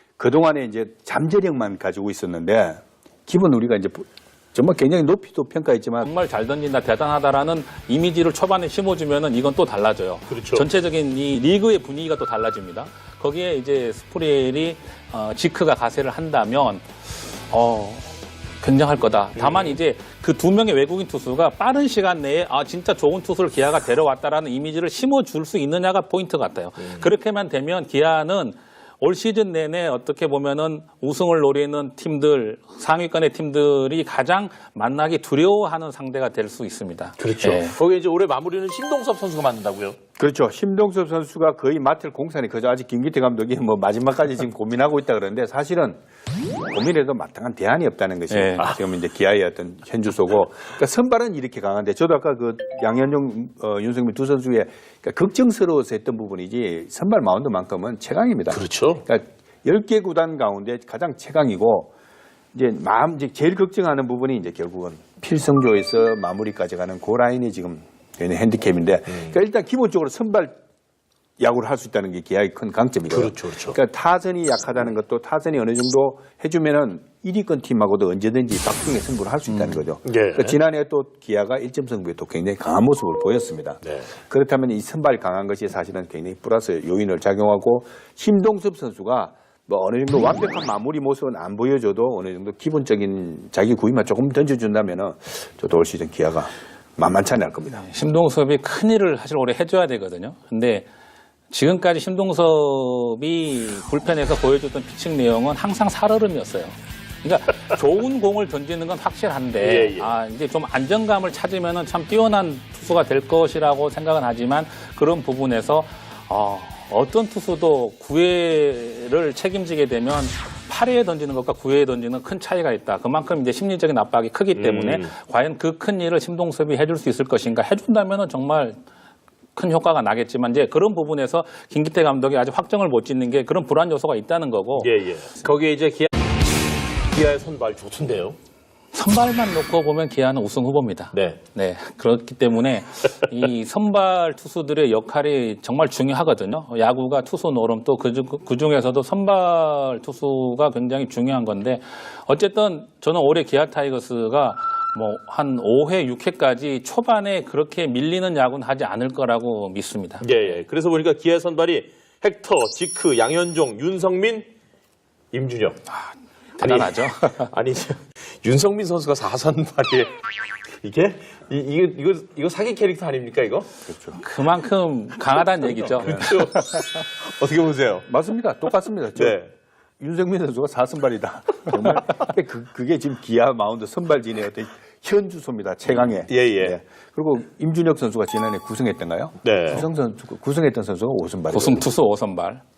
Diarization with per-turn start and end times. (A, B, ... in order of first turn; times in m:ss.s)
0:00.2-0:06.1 A
0:06.0-0:18.1 B
0:10.3-0:10.6 C
0:18.6-0:37.7 B
0:19.4-0:19.8 C
0:26.8-0:27.1 C
0:37.2-0:40.0 C
0:40.2-0:46.0 A
0:46.7-1:01.9 A
0:48.3-0:48.6 B
0:58.5-0:59.0 C
1:02.5-1:10.6 A
1:09.1-1:09.4 C
1:11.4-1:37.8 A
1:13.1-1:13.8 C
1:19.5-1:19.8 B
1:20.0-1:20.6 C
1:23.8-1:24.1 C
1:37.7-1:40.9 B
1:41.5-2:08.8 B
1:49.6-1:50.1 C
2:04.5-2:05.1 C
2:09.5-2:14.9 B
2:14.8-2:16.1 C
2:17.1-2:18.4 C
2:18.9-2:40.6 B
2:21.1-2:21.4 C
2:40.2-2:44.5 C
2:45.3-2:45.8 C
2:46.6-2:50.1 C
2:46.6-2:47.5 B
2:50.7-2:53.7 C
2:53.8-2:54.2 A
2:54.2-2:57.0 B
2:55.8-2:58.1 C
2:55.9-2:56.2 A
2:58.0-2:59.4 A
2:59.1-2:59.5 C
3:00.0-3:11.9 A
3:06.3-3:06.8 C
3:09.4-3:09.8 C
3:11.5-3:12.6 B